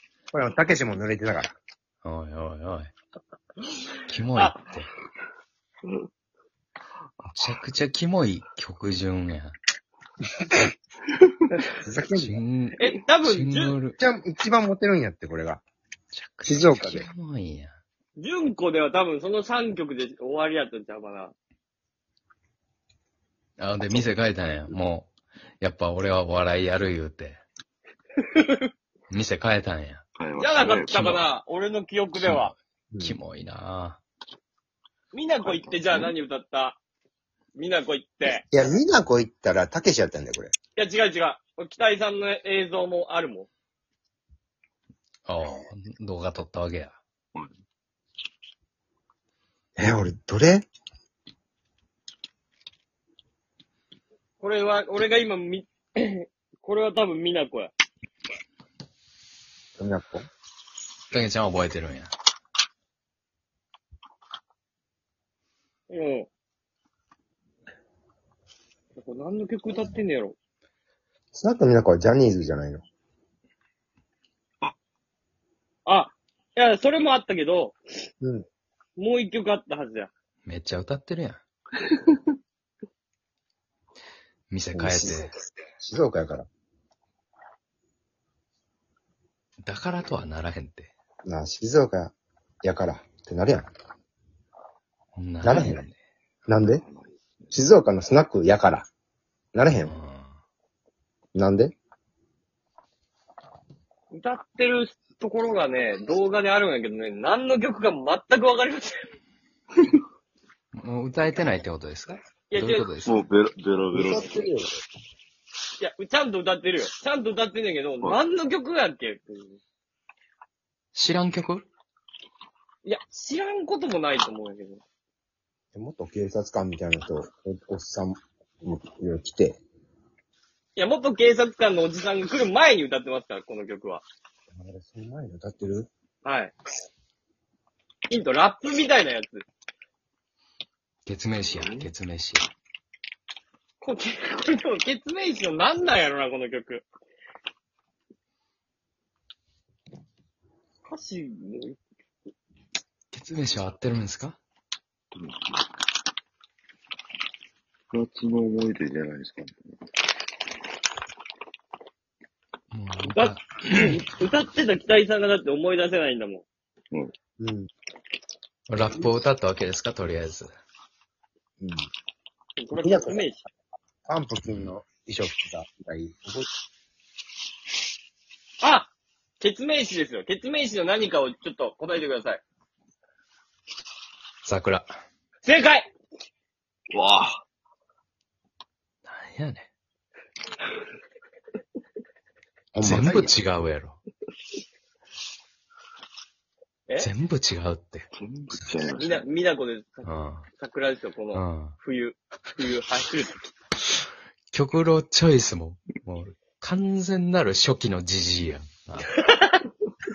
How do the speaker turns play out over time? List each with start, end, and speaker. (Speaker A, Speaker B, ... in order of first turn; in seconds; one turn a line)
Speaker A: 0.3-1.5
Speaker B: 2.0-2.9
Speaker B: 4.1-4.9
Speaker B: 7.3-9.6
Speaker A: 11.8-12.4
Speaker B: 12.2-14.0
Speaker C: 12.8-13.8
Speaker A: 14.0-15.6
Speaker B: 16.1-17.8
Speaker A: 16.4-17.1
Speaker C: 18.2-21.3
Speaker B: 23.6-27.4
Speaker C: 28.4-28.6
Speaker B: 29.1-30.0
Speaker D: 30.2-31.1
Speaker C: 30.4-32.5
Speaker B: 30.9-31.2
Speaker B: 32.1-34.0
Speaker C: 35.1-36.8
Speaker D: 35.4-36.1
Speaker C: 37.5-38.5
Speaker A: 38.5-40.5
Speaker C: 40.8-43.5
Speaker B: 45.3-47.0
Speaker A: 49.8-50.7
Speaker C: 54.4-57.7
Speaker A: 59.8-60.3
Speaker B: 61.1-62.1
Speaker C: 65.9-66.3
Speaker C: 69.0-70.4
Speaker A: 71.3-72.8
Speaker C: 75.9-77.8
Speaker C: 79.0-80.1
Speaker B: 80.5-81.4
Speaker B: 84.5-85.3
Speaker A: 84.7-86.5
Speaker B: 89.6-90.9
Speaker A: 91.3-93.7
Speaker B: 95.2-96.0
Speaker A: 95.4-95.9
Speaker A: 96.5-96.8
Speaker D: 96.5-97.6
Speaker A: 97.5-98.9
Speaker A: 99.5-99.9
Speaker B: 99.8-100.4
Speaker A: 101.3-101.8
Speaker C: 104.1-109.0
Speaker B: 110.7-113.2
Speaker C: 112.5-112.9
Speaker D: 113.0-114.5
Speaker A: 113.9-114.8
Speaker C: 115.8-119.6
Speaker B: 120.9-121.7
Speaker C: 122.8-124.8
Speaker A: 125.7-129.6
Speaker C: 130.8-134.1
Speaker A: 134.5-135.9
Speaker C: 136.2-136.6
Speaker C: 138.1-139.4
Speaker B: 141.1-142.5
Speaker C: 143.8-146.9
Speaker C: 150.8-151.8
Speaker B: 153.1-154.4
Speaker D: 155.1-155.6
Speaker D: 157.9-159.7
Speaker B: 162.7-163.9
Speaker C: 163.1-166.4
Speaker A: 167.4-167.7
Speaker B: 168.7-170.5
Speaker A: 171.6-171.9
Speaker C: 172.6-173.4
Speaker A: 172.7-173.3
Speaker A: 174.1-176.5
Speaker C: 178.6-182.4
Speaker B: 184.4-184.9
Speaker C: 185.4-185.9
Speaker D: 186.9-187.4
Speaker B: 189.1-189.7
Speaker A: 192.7-193.3
Speaker B: 192.8-194.0
Speaker B: 197.0-198.1
Speaker D: 198.1-199.3
Speaker C: 198.9-203.5
Speaker B: 200.1-200.5
Speaker B: 201.3-201.8
Speaker B: 204.5-209.2
Speaker C: 209.2-209.7